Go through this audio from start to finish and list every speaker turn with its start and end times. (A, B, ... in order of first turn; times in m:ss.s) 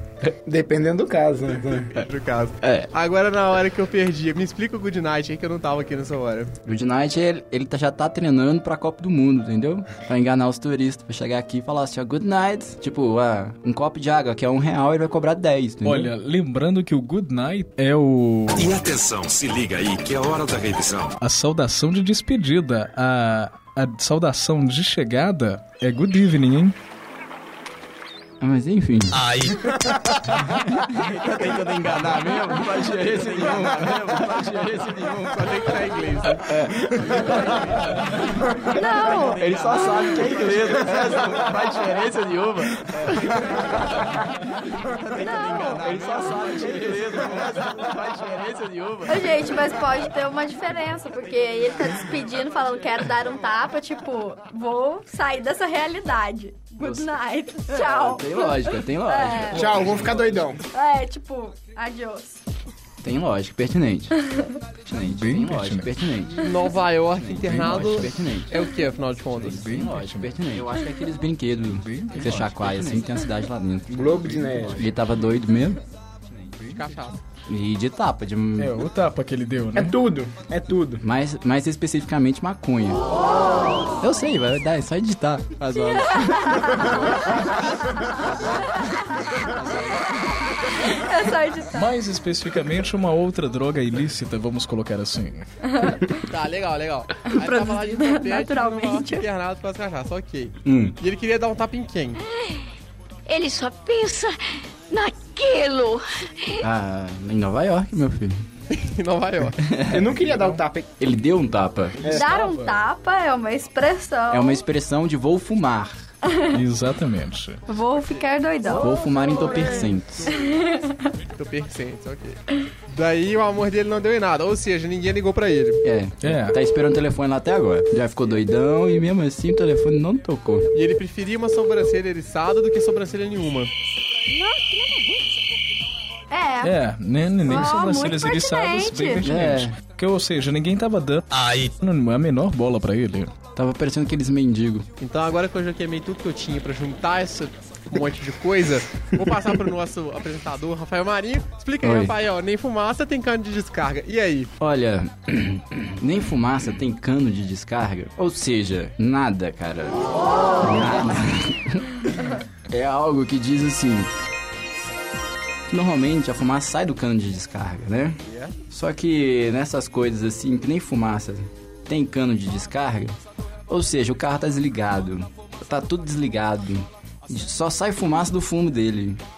0:00.4-0:01.9 A
0:01.6-0:06.5 B
0:02.6-0:02.9 C
0:06.6-0:16.1 C
0:15.8-0:18.8 D
0:18.5-0:21.2 E
0:21.2-0:26.7 D
0:28.4-0:29.3 C
0:29.1-0:29.6 E
0:30.4-0:35.9 C
0:35.3-0:36.5 B
0:36.4-0:38.0 C
0:38.7-0:40.3 F
0:39.0-0:43.7 C
0:44.8-0:49.4 C
0:45.2-0:45.8 F
0:49.1-0:59.6 F
0:56.8-0:57.1 C
0:57.7-1:00.4 C
0:59.5-1:00.6 A
0:59.6-1:00.2 D
1:00.7-1:02.4 F
1:03.0-1:04.1 C
1:04.2-1:04.6 F
1:04.8-1:08.5 C
1:05.0-1:05.9 D
1:06.4-1:09.7 B
1:09.4-1:15.8 C
1:09.4-1:10.3 D
1:11.7-1:13.0 D
1:13.9-1:14.9 A
1:16.7-1:17.2 B
1:17.5-1:18.8 C
1:18.6-1:20.0 D
1:19.7-1:21.0 A
1:21.0-1:23.1 C
1:24.0-1:27.2 C
1:25.8-1:27.1 F
1:28.8-1:29.8 F
1:30.4-1:31.9 F
1:31.7-1:35.5 D
1:35.7-1:36.1 F
1:36.3-1:42.2 B
1:37.3-1:39.2 F
1:40.6-1:41.0 C
1:43.3-1:46.6 G
1:46.6-1:48.5 C
1:48.7-1:49.6 B
1:49.6-1:50.3 C
1:49.9-1:50.9 A
1:51.0-1:52.1 C
1:52.0-1:52.3 A
1:52.0-1:52.8 D
1:52.1-1:54.6 F
1:54.3-1:56.1 C
1:56.2-1:56.5 F
1:56.5-1:57.6 D
1:57.7-1:59.0 F
1:58.7-2:00.3 C
2:00.4-2:00.9 F
2:01.3-2:05.8 B
2:05.8-2:10.7 C
2:06.2-2:06.6 D
2:10.7-2:13.7 B
2:14.4-2:15.1 G
2:16.3-2:16.7 F
2:16.6-2:23.3 D
2:17.4-2:19.2 F
2:19.2-2:19.8 C
2:21.3-2:21.7 E
2:23.5-2:24.9 C
2:25.0-2:34.5 B
2:31.8-2:32.1 C
2:34.6-2:40.0 C
2:40.6-2:42.1 C
2:42.7-2:44.1 C
2:45.7-2:59.2 C
2:48.2-2:48.5 B